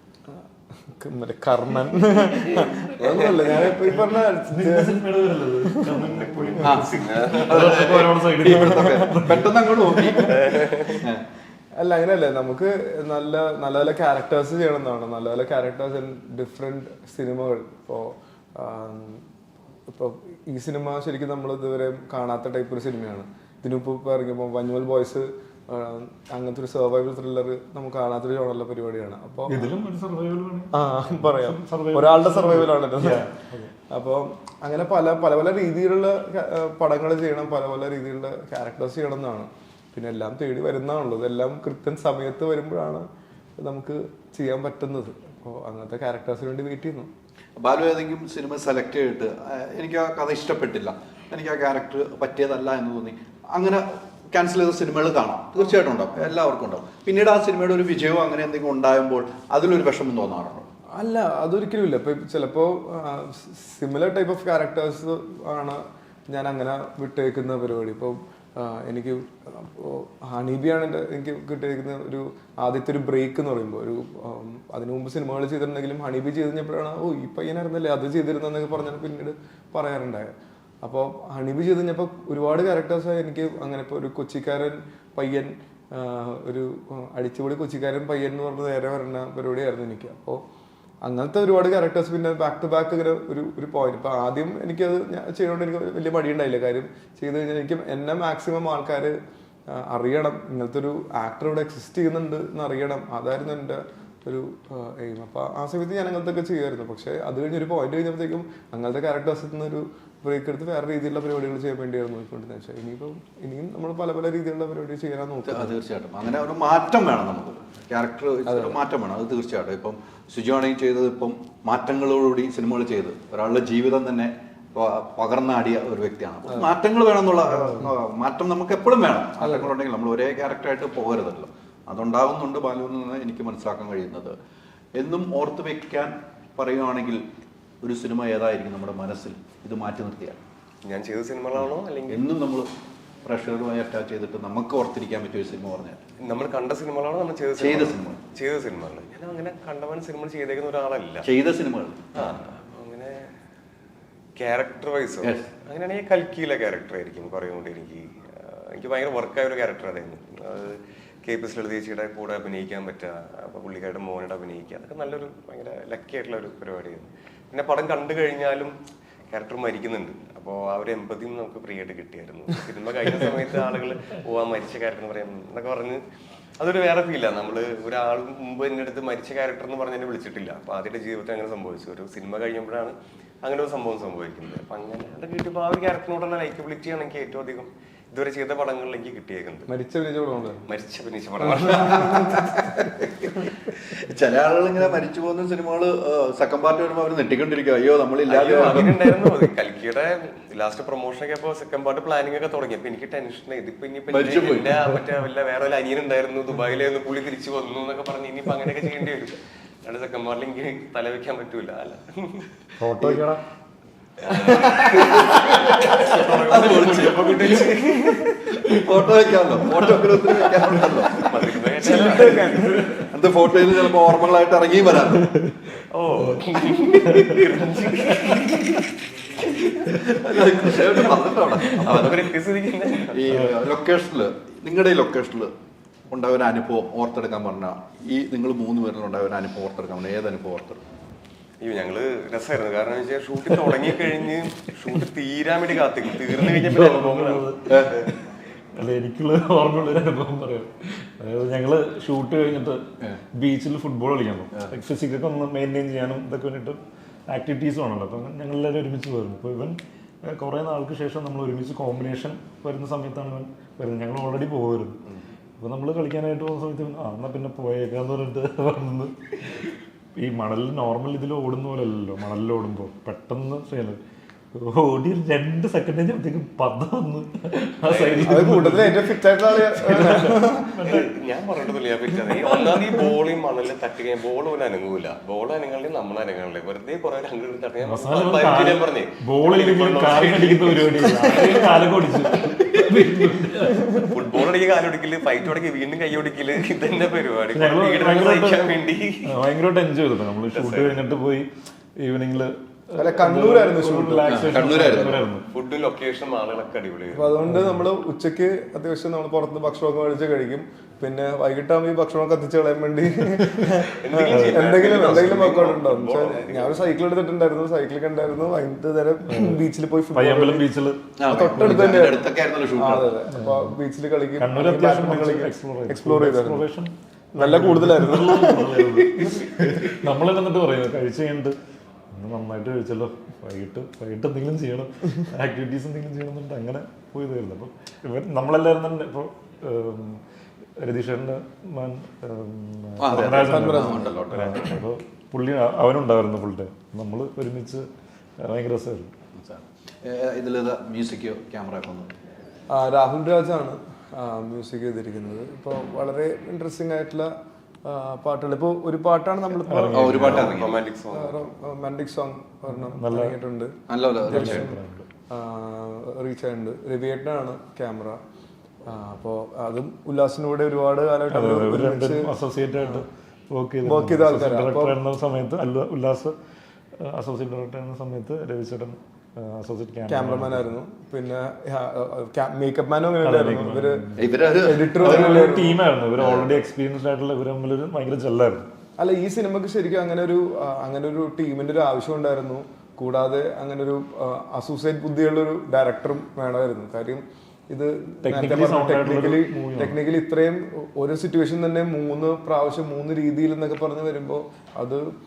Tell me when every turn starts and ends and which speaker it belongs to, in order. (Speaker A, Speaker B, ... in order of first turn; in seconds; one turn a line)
Speaker A: 0.3-6.0
Speaker B: 3.0-3.7
Speaker C: 3.9-10.3
Speaker B: 5.9-8.0
Speaker D: 6.6-11.2
Speaker A: 8.7-9.0
Speaker A: 10.1-10.5
Speaker B: 10.3-11.1
Speaker A: 11.8-19.2
Speaker A: 19.9-29.7
Speaker C: 29.5-33.7
Speaker A: 30.7-33.3
Speaker A: 33.9-43.1
Speaker A: 43.6-47.1
Speaker D: 47.6-60.7
Speaker A: 60.9-90.4
Speaker A: 91.0-99.2
Speaker A: 99.7-115.7
Speaker D: 115.4-134.3
Speaker A: 118.5-118.8
Speaker A: 129.4-129.7
Speaker D: 135.0-137.3
Speaker D: 137.8-140.4
Speaker B: 140.8-142.2
Speaker D: 142.1-142.7
Speaker D: 143.2-146.0
Speaker B: 146.2-151.2
Speaker D: 147.6-148.2
Speaker D: 151.2-152.1
Speaker B: 152.1-153.3
Speaker B: 154.3-168.8
Speaker B: 169.3-176.0
Speaker B: 176.6-189.7
Speaker A: 189.7-190.7
Speaker B: 190.7-192.1
Speaker A: 191.4-192.6
Speaker D: 191.7-198.9
Speaker B: 198.3-212.5
Speaker D: 204.1-204.8
Speaker C: 212.8-213.4
Speaker D: 214.2-217.8
Speaker B: 214.2-218.5
Speaker D: 218.4-221.2
Speaker B: 221.1-223.1
Speaker A: 221.8-222.9
Speaker D: 221.9-225.3
Speaker C: 225.2-225.6
Speaker B: 225.8-233.2
Speaker C: 227.1-227.4
Speaker C: 228.1-228.8
Speaker D: 229.7-232.3
Speaker D: 233.1-235.5
Speaker D: 236.1-240.8
Speaker B: 241.6-248.1
Speaker C: 246.3-248.2
Speaker D: 247.7-248.0
Speaker C: 248.7-252.8
Speaker C: 253.3-265.0
Speaker C: 265.6-274.0
Speaker C: 274.5-281.1
Speaker B: 277.9-278.3
Speaker A: 278.2-280.8
Speaker B: 280.8-293.2
Speaker C: 287.8-294.1
Speaker B: 294.0-299.3
Speaker C: 297.5-301.5
Speaker B: 300.5-301.0
Speaker C: 302.0-305.5
Speaker A: 303.0-304.4
Speaker D: 304.2-305.2
Speaker B: 305.5-307.4
Speaker A: 307.1-320.6
Speaker C: 307.4-307.8
Speaker B: 314.0-316.9
Speaker C: 314.3-314.7
Speaker D: 314.8-315.4
Speaker C: 319.3-319.6
Speaker C: 320.1-321.1
Speaker D: 321.2-323.2
Speaker A: 321.3-326.7
Speaker C: 323.3-323.7
Speaker C: 324.4-331.6
Speaker A: 327.3-329.9
Speaker C: 332.1-340.2
Speaker C: 340.8-347.9
Speaker D: 343.0-344.8
Speaker A: 343.4-344.1
Speaker C: 348.4-349.1
Speaker D: 349.4-352.1
Speaker A: 352.7-357.3
Speaker A: 357.8-360.3
Speaker C: 359.6-360.5
Speaker D: 359.9-360.8
Speaker B: 360.2-361.4
Speaker A: 361.1-364.8
Speaker C: 362.6-363.4
Speaker D: 363.9-364.7
Speaker C: 364.2-365.1
Speaker A: 365.3-368.2
Speaker A: 368.8-373.0
Speaker C: 371.3-376.3
Speaker A: 373.8-375.0
Speaker C: 377.0-380.8
Speaker A: 380.1-385.8
Speaker C: 383.2-384.2
Speaker D: 384.1-385.4
Speaker C: 384.9-388.7
Speaker D: 386.2-386.6
Speaker A: 389.0-405.1
Speaker C: 398.2-400.0